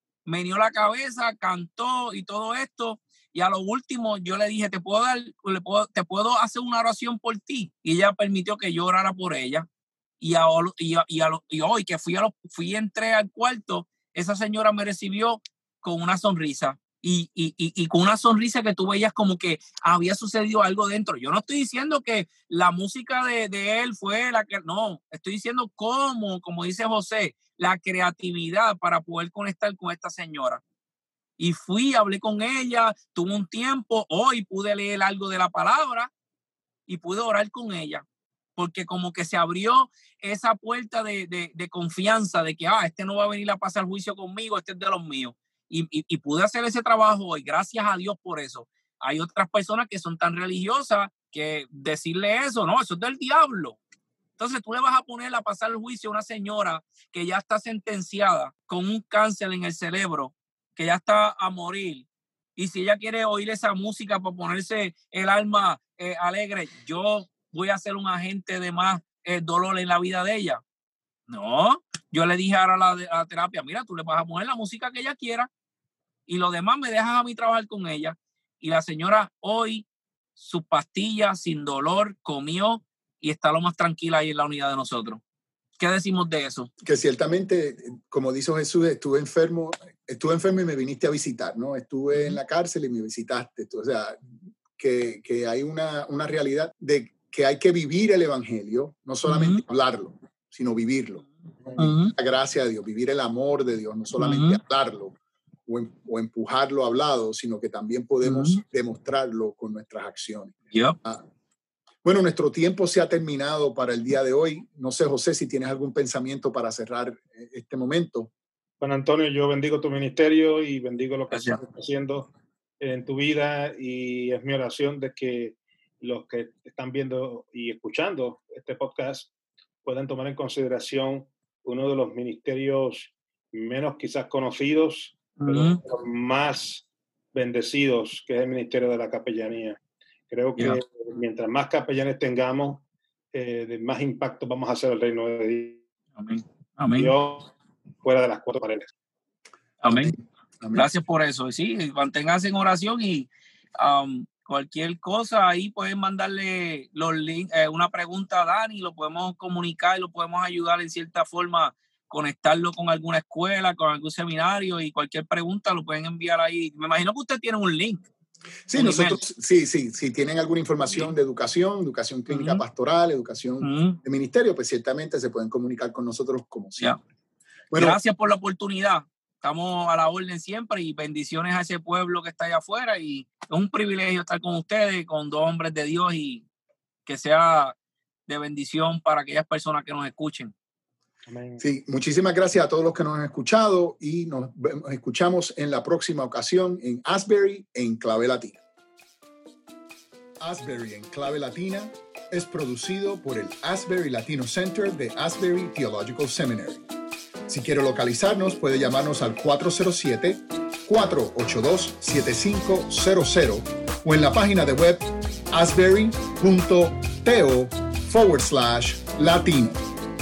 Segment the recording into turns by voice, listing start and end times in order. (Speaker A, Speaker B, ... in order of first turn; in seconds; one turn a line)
Speaker A: 0.3-9.7
Speaker A: 10.2-30.6
Speaker A: 31.4-36.1
Speaker A: 36.9-38.0
Speaker A: 38.6-53.8
Speaker A: 54.4-70.6
Speaker A: 71.3-75.5
Speaker A: 76.3-85.2
Speaker A: 85.8-86.7
Speaker B: 86.8-111.3
Speaker A: 92.1-92.4
Speaker A: 99.3-99.6
Speaker A: 101.8-102.1
Speaker A: 104.2-104.6
Speaker A: 108.2-108.6
Speaker A: 110.7-111.0
Speaker B: 112.0-118.3
Speaker C: 118.8-129.3
Speaker A: 121.3-121.6
Speaker C: 129.8-139.8
Speaker A: 135.4-135.8
Speaker C: 140.3-145.8
Speaker A: 146.2-147.1
Speaker C: 146.9-148.9
Speaker A: 149.8-150.1
Speaker B: 149.8-150.9
Speaker A: 150.7-168.1
Speaker B: 168.7-177.0
Speaker A: 168.7-169.2
Speaker A: 172.3-172.6
Speaker A: 173.6-174.0
Speaker B: 177.7-178.0
Speaker A: 177.8-186.5
Speaker A: 187.1-187.7
Speaker A: 188.3-190.5
Speaker C: 191.3-191.7
Speaker B: 191.6-198.6
Speaker B: 200.4-206.8
Speaker B: 207.5-219.8